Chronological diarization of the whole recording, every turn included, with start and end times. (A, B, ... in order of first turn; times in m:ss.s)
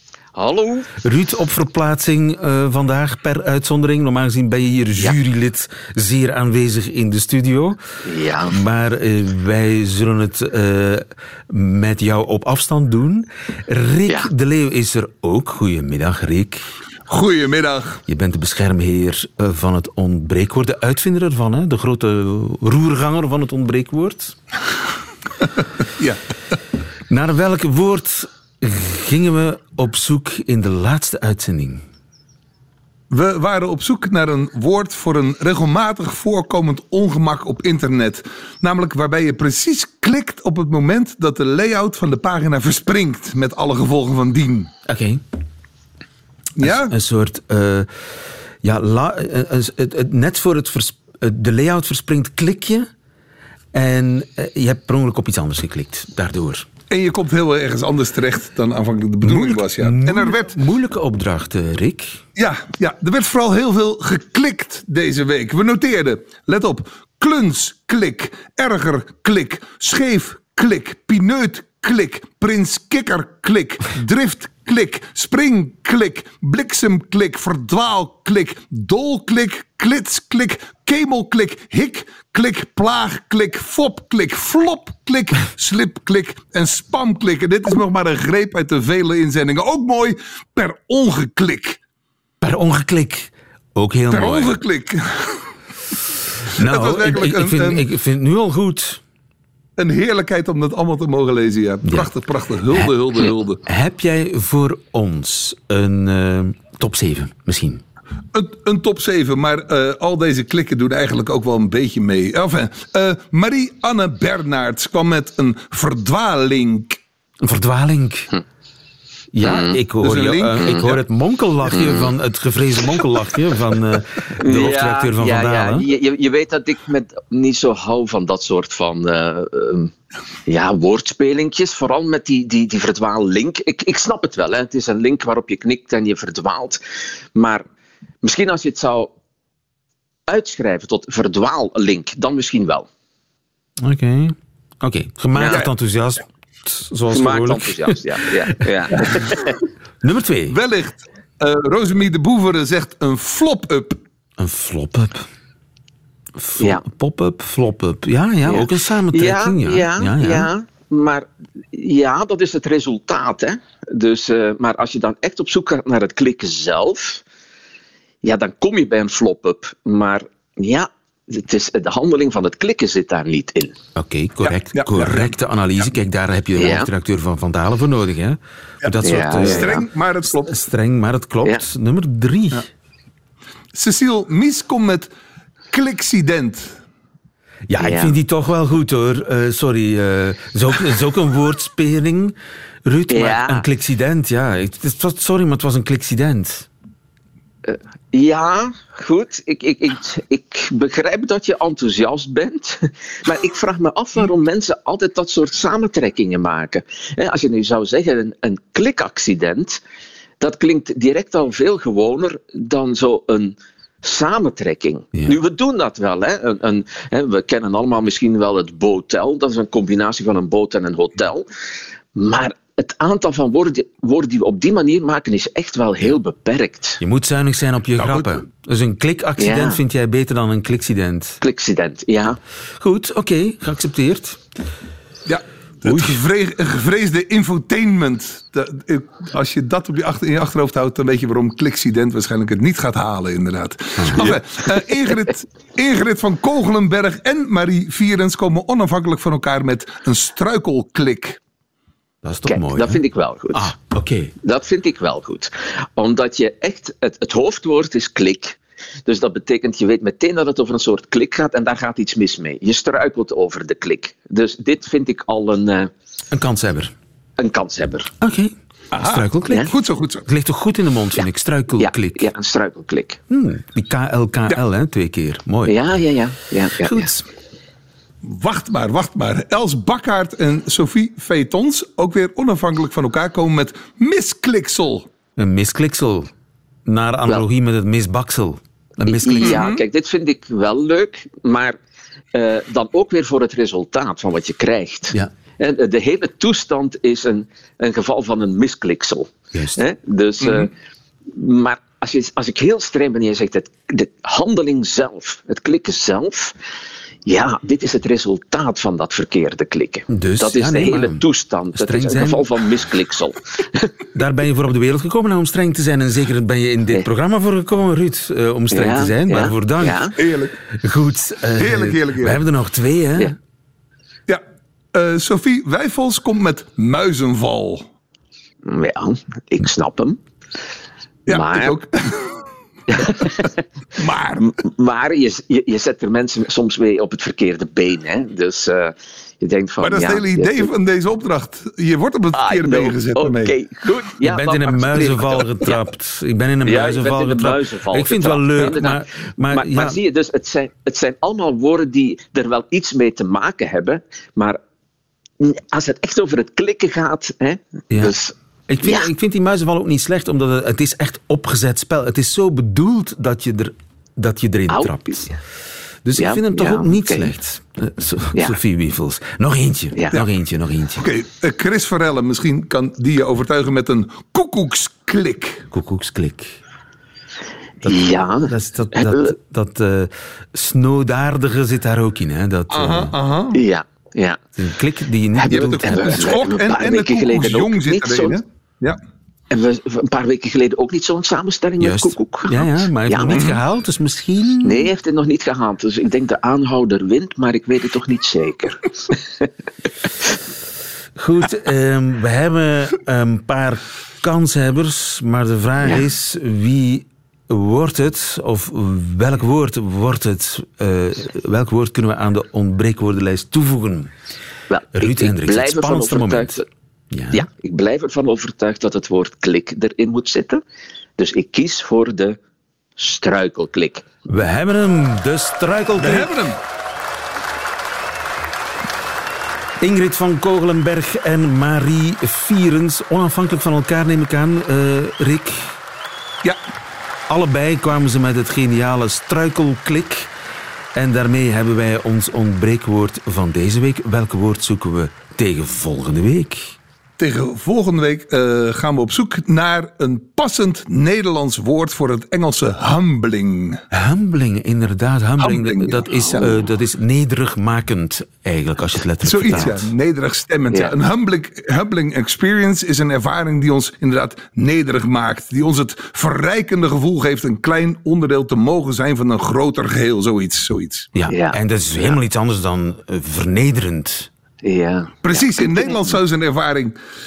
0:00.4-0:00.9 A
0:01.0-0:07.8 B
0:08.1-0:08.6 A
0:08.5-0:16.7 B
0:17.1-0:18.0 C
0:18.1-0:24.4 B
0:27.1-0:31.8 B
0:33.1-0:44.7 C
0:44.9-0:45.2 B
0:46.6-0:46.9 C
0:46.6-0:47.9 B
0:48.6-0:52.9 B
0:53.7-0:56.7 B
0:56.9-1:00.5 C
0:59.2-1:02.2 B
1:02.4-1:31.8 C
1:32.4-1:34.6 B
1:34.1-1:35.5 C
1:36.6-1:39.0 B
1:36.6-1:37.9 C
1:39.8-1:43.6 C
1:41.8-1:42.1 B
1:43.7-1:47.8 B
1:48.3-1:57.0 C
1:57.4-1:58.3 B
1:59.3-2:05.9 B
1:59.4-1:59.8 A
2:00.0-2:01.0 C
2:01.7-2:02.1 A
2:04.4-2:09.9 A
2:10.5-2:16.8 A
2:17.4-2:17.6 A
2:18.2-2:19.1 A
2:20.3-2:22.9 A
2:23.8-2:28.1 B
2:25.4-2:25.6 A
2:27.1-2:29.5 A
2:30.0-2:30.6 B
2:30.5-2:34.0 C
2:34.4-2:35.3 B
2:36.4-2:40.5 B
2:38.5-2:47.2 A
2:48.2-2:53.8 A
2:54.0-2:59.8 B
2:54.5-2:55.3 C
2:56.6-2:56.9 A
2:58.8-3:00.5 C
2:59.0-2:59.9 A
3:00.4-3:02.7 B
3:03.7-3:05.1 C
3:05.7-3:06.8 C
3:07.7-3:16.7 B
3:07.8-3:08.1 A
3:13.1-3:13.6 A
3:17.6-3:29.8 A
3:30.4-3:41.4 A
3:42.2-3:47.0 A
3:47.0-3:51.4 B
3:48.0-3:48.4 C
3:49.4-3:49.8 A
3:51.4-3:52.4 A
3:52.8-3:54.4 B
3:55.3-4:11.4 C
3:55.8-3:56.2 B
4:04.0-4:04.4 B
4:12.2-4:14.4 B
4:12.5-4:13.7 A
4:14.4-4:25.9 A
4:26.3-4:26.9 B
4:27.4-4:28.1 A
4:28.2-4:29.7 B
4:28.9-4:30.3 C
4:30.3-4:32.3 B
4:31.8-4:33.2 A
4:33.3-4:35.8 B
4:35.7-4:37.1 A
4:36.8-4:37.2 B
4:38.2-4:45.1 C
4:45.4-4:46.3 B
4:46.9-4:49.6 B
4:49.1-4:51.8 A
4:49.4-4:49.8 C
4:52.3-5:00.7 A
4:59.5-4:59.8 B
5:01.3-5:06.6 A
5:07.3-5:13.9 A
5:10.1-5:12.5 B
5:14.1-5:20.1 B
5:18.7-5:20.1 A
5:20.2-5:20.6 C
5:20.7-5:23.4 B
5:21.6-5:22.4 C
5:24.9-5:27.9 C
5:28.6-5:30.2 A
5:31.3-5:32.5 C
5:31.3-5:31.8 A
5:32.9-5:33.6 A
5:34.0-5:34.6 C
5:34.6-5:40.7 A
5:39.8-5:43.6 C
5:42.3-5:45.9 A
5:44.2-5:50.0 B
5:46.6-5:54.6 A
5:55.4-5:59.1 A
5:58.7-6:05.4 B
6:04.7-6:05.4 A
6:06.0-6:11.1 B
6:06.2-6:07.3 A
6:11.0-6:15.6 C
6:15.7-6:16.6 B
6:17.8-6:19.3 A
6:17.8-6:23.1 B
6:22.7-6:23.6 C
6:23.5-6:24.4 A
6:24.6-6:26.4 B
6:25.4-6:28.4 A
6:25.5-6:29.0 C
6:29.5-6:33.5 A
6:31.8-6:34.9 B
6:33.3-6:33.6 C
6:34.6-6:39.5 A
6:41.2-6:54.1 B
6:54.7-6:56.6 A
6:55.0-6:57.5 B
6:57.3-7:00.6 A
7:01.2-7:02.4 A
7:03.0-7:04.0 A
7:04.2-7:06.3 B
7:06.0-7:06.6 C
7:09.8-7:15.8 B
7:17.3-7:20.3 B
7:20.9-7:26.8 B
7:27.2-7:33.8 C
7:33.9-7:39.9 B
7:35.4-7:36.6 C
7:39.2-7:51.1 C
7:51.2-7:54.3 B
7:51.3-7:52.2 A
7:54.6-7:56.2 A
7:55.2-7:57.0 C